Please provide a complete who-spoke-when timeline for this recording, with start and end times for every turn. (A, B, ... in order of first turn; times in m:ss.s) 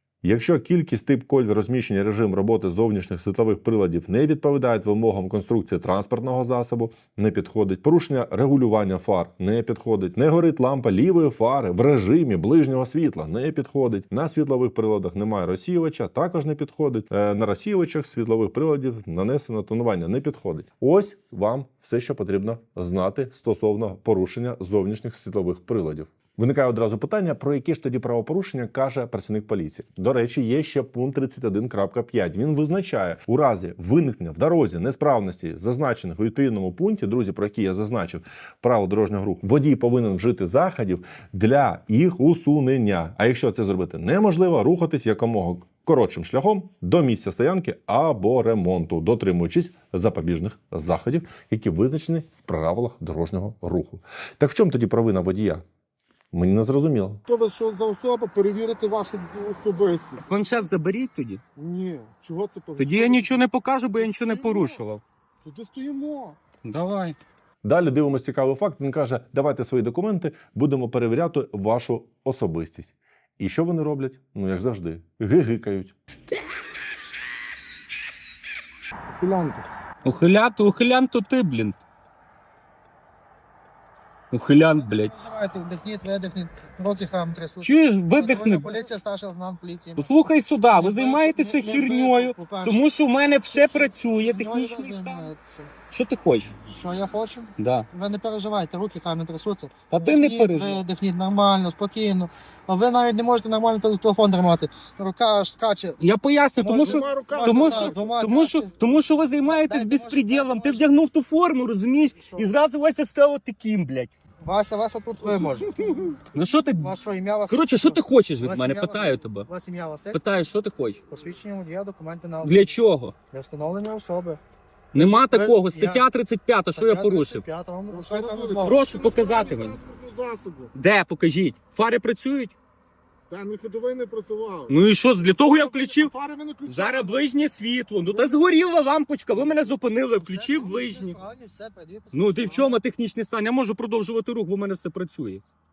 0:00.2-0:55.6 A
0:56.3-0:57.2 A
0:57.3-1:00.5 B
1:00.2-1:01.4 C
1:01.6-1:03.4 B
1:02.8-1:05.0 C
1:04.0-1:04.8 B
1:05.4-1:06.4 B
1:06.6-1:07.2 C
1:07.6-1:15.9 A
1:19.2-1:19.6 B
1:20.0-1:21.8 C
1:24.3-1:25.2 C
1:24.5-1:32.9 D
1:27.6-1:28.8 C
1:30.0-1:35.3 C
1:33.5-1:35.7 D
1:35.9-1:36.5 C
1:36.7-1:46.0 D
1:37.6-1:37.9 C
1:39.9-1:40.8 C
1:46.0-1:54.1 C
1:46.6-1:48.9 D
1:46.8-1:48.1 B
1:49.4-1:50.8 D
1:52.2-1:52.5 D
1:54.4-2:00.2 D
1:56.3-1:56.9 C
1:57.5-1:59.5 C
2:00.1-2:01.0 C
2:01.1-2:02.8 D
2:02.4-2:03.1 C
2:03.3-2:04.4 D
2:04.9-2:06.0 D
2:04.9-2:07.4 C
2:06.7-2:09.1 D
2:07.9-2:10.7 B
2:08.6-2:09.8 C
2:10.7-2:12.6 C
2:13.3-2:17.2 B
2:14.7-2:16.1 C
2:16.7-2:21.2 C
2:18.0-2:18.5 B
2:20.2-2:22.8 D
2:22.1-2:25.4 C